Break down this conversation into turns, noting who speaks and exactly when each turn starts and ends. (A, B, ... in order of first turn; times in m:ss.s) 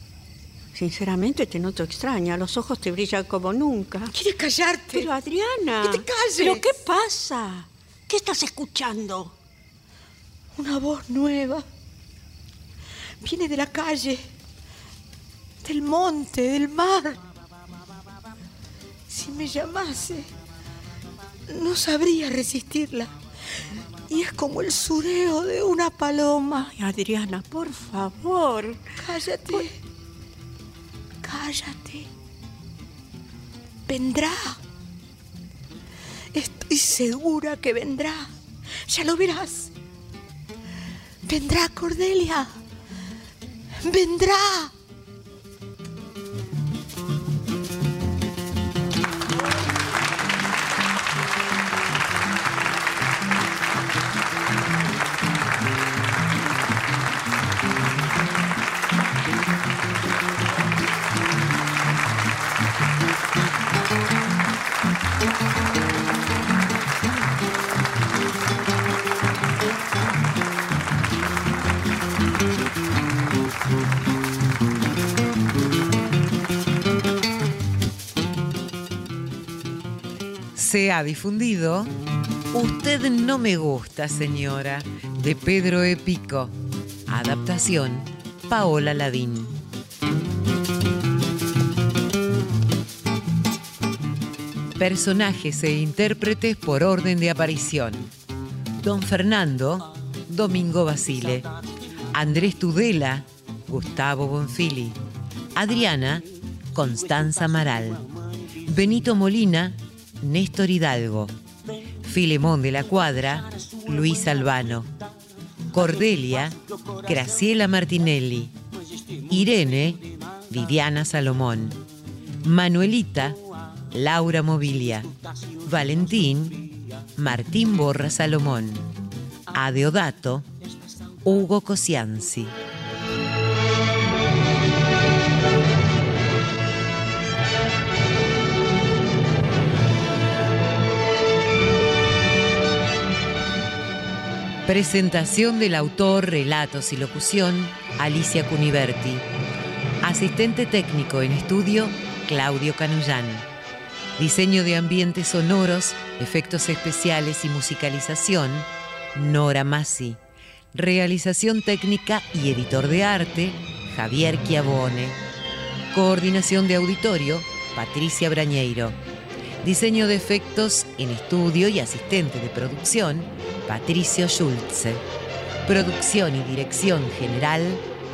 0:00.7-0:04.1 A
0:04.1-0:05.1 B
0:04.9-0:09.3 A
0:05.8-0:06.7 B
0:10.5-0:11.6 B
0:13.2-0:14.2 B
0:15.6-0:17.2 B
0:19.1-0:20.3 B
0:21.5-0:23.1 B
0:24.1-0:26.7 B
0:26.7-0:28.8 A
0:29.0-0:29.8 B
0:31.2-0:32.1 B
0:33.9-0:34.6 B
0:36.3-0:38.3 B
0:38.9-0:39.7 B
0:41.2-0:42.5 B
0:43.8-0:44.7 B
1:20.5-1:21.9 C
1:22.5-1:26.5 C
1:27.1-1:29.6 C
1:34.8-1:38.1 C
1:38.8-1:41.5 C
1:42.1-1:45.0 C
1:45.6-1:48.0 C
1:48.6-1:51.3 C
1:52.0-1:54.9 C
1:55.7-1:58.6 C
1:59.3-2:01.8 C
2:02.4-2:03.4 C
2:03.9-2:05.1 C
2:05.6-2:08.9 C
2:09.5-2:10.5 C
2:11.2-2:12.6 C
2:24.6-2:29.2 C
2:30.0-2:33.5 C
2:34.2-2:40.2 C
2:40.7-2:45.2 C
2:45.9-2:49.0 C
2:49.6-2:55.0 C
2:55.6-2:57.8 C